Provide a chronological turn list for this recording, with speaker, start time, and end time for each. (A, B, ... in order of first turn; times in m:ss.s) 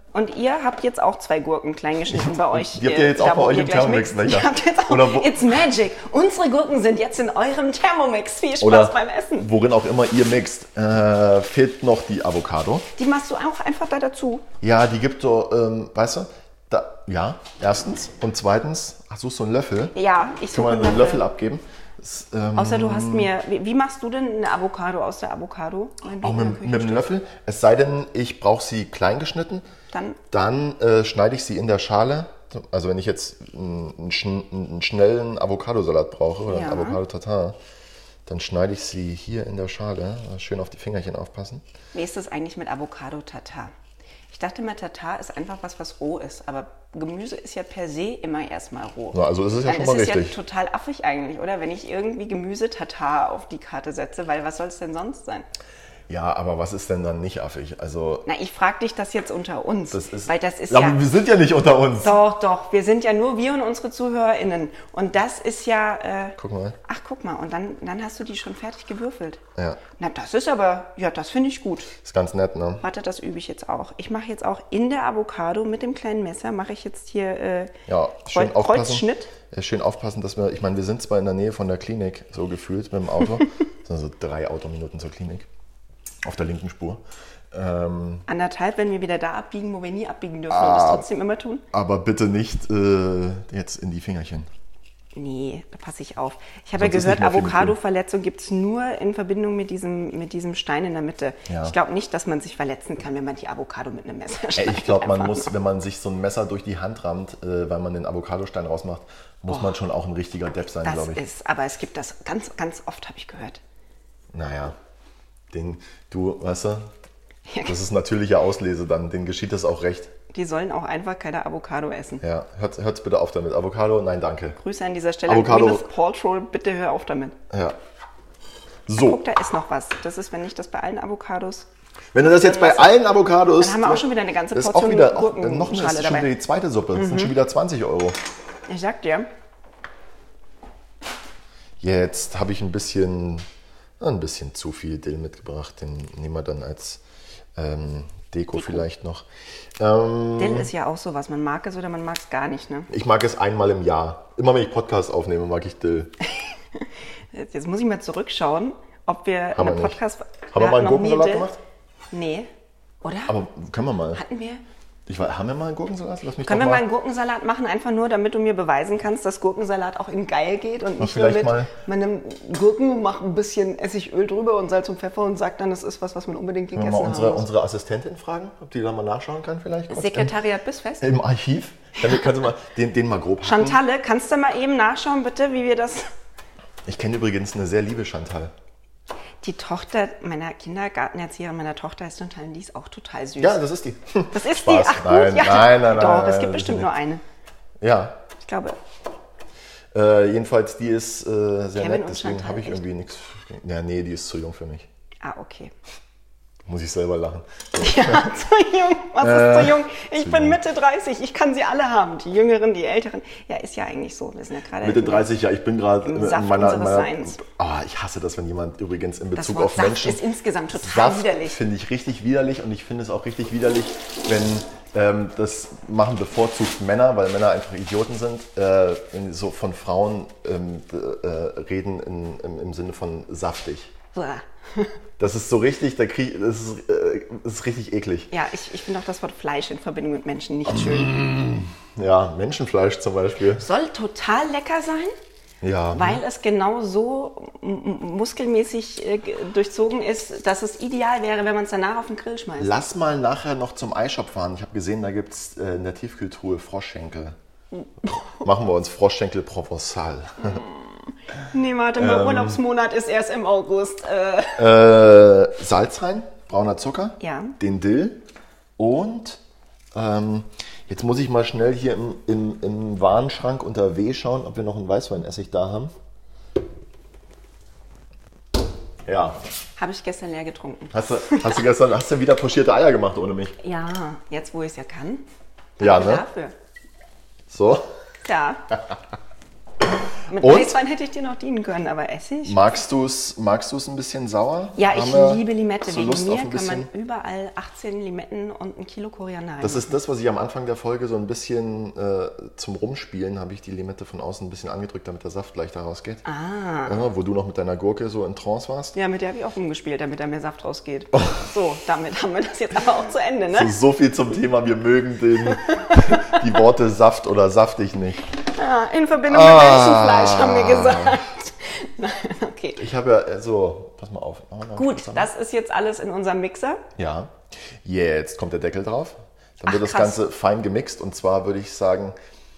0:00.1-0:09.5 A
0:02.1-0:05.6 B
0:08.6-0:12.9 B
0:13.0-0:14.5 A
0:14.6-0:19.9 B
0:19.9-0:21.2 A
0:20.5-0:23.3 B
0:22.6-0:27.1 A
0:26.2-0:29.7 B
0:29.9-0:30.2 A
0:30.3-0:37.6 B
0:36.5-0:37.0 A
0:38.3-0:41.6 B
0:41.9-0:43.7 A
0:44.3-0:55.5 A
0:49.1-0:50.4 B
0:56.1-0:58.3 B
0:58.3-1:01.0 A
0:59.9-1:02.1 B
1:02.0-1:09.4 A
1:06.4-1:06.8 B
1:09.6-1:09.8 B
1:10.0-1:11.9 A
1:12.0-1:12.8 B
1:12.8-1:17.7 A
1:17.9-1:25.5 B
1:18.3-1:19.3 A
1:26.2-1:28.3 B
1:28.3-1:31.6 A
1:30.5-1:31.1 B
1:31.7-1:34.5 B
1:35.2-1:45.5 A
1:36.8-1:37.8 B
1:41.5-1:41.8 B
1:44.6-1:51.2 B
1:49.5-1:49.7 A
1:50.8-1:53.6 A
1:54.3-1:54.8 B
1:55.5-1:56.9 B
1:57.5-1:57.8 A
1:57.7-2:00.1 B
2:00.3-2:02.2 A
2:02.2-2:04.6 B
2:04.6-2:07.4 A
2:05.3-2:05.9 B
2:07.5-2:07.8 B
2:08.9-2:09.2 B
2:09.0-2:11.7 A
2:12.1-2:18.2 B
2:12.2-2:13.0 A
2:13.6-2:16.3 A
2:17.0-2:17.3 A
2:18.7-2:19.3 A
2:21.8-2:23.4 B
2:24.0-2:27.0 B
2:27.6-2:29.3 B
2:28.5-2:28.8 A
2:29.8-2:30.7 B
2:30.4-2:32.9 A
2:32.9-2:36.1 B
2:36.8-2:41.5 A
2:39.6-2:40.0 B
2:40.5-2:41.6 B
2:42.1-2:42.5 A
2:43.0-2:43.3 A
2:43.3-2:44.2 B
2:44.1-2:44.6 A
2:45.1-2:46.8 B
2:46.4-2:57.5 A
2:51.0-2:51.7 B
2:56.8-3:00.3 B
2:59.9-3:01.1 A
3:01.0-3:03.8 B
3:03.4-3:06.1 A
3:06.9-3:08.5 B
3:09.4-3:13.6 A
3:13.4-3:16.9 B
3:14.3-3:17.2 A
3:17.8-3:18.2 B
3:18.4-3:18.8 A
3:19.9-3:24.9 B
3:21.8-3:22.8 A
3:25.2-3:25.7 A
3:26.7-3:28.3 B
3:27.8-3:35.3 A
3:29.2-3:30.6 B
3:34.8-3:40.2 B
3:36.0-3:37.4 A
3:39.4-3:41.6 A
3:40.7-3:53.9 B
3:54.1-3:54.9 A
3:55.2-3:58.3 B
3:58.3-4:01.2 A
4:00.7-4:03.6 B
4:03.6-4:05.1 A
4:05.6-4:06.2 B
4:05.9-4:12.7 A
4:12.6-4:17.4 B
4:18.4-4:20.6 B
4:20.4-4:20.9 A
4:21.5-4:24.7 A
4:22.0-4:22.6 B
4:24.6-4:28.2 B
4:27.2-4:27.6 A
4:28.8-4:29.4 B
4:29.9-4:35.9 B
4:39.1-4:39.4 B
4:39.8-4:41.6 A
4:40.9-4:43.6 B
4:43.6-4:45.2 A
4:45.8-4:46.6 A
4:45.8-4:46.2 B
4:47.5-4:47.9 B
4:48.2-4:48.6 A
4:50.3-4:52.6 A
4:50.4-4:50.8 B
4:52.4-4:56.9 B
4:54.8-4:59.9 A
4:59.6-5:06.2 B
5:06.2-5:07.0 A
5:06.9-5:08.9 B
5:08.9-5:13.7 A
5:13.5-5:18.3 B
5:15.7-5:16.4 A
5:18.5-5:22.8 A
5:19.3-5:21.2 B
5:22.8-5:25.3 B
5:24.8-5:26.8 A
5:27.0-5:32.2 B
5:29.6-5:30.2 A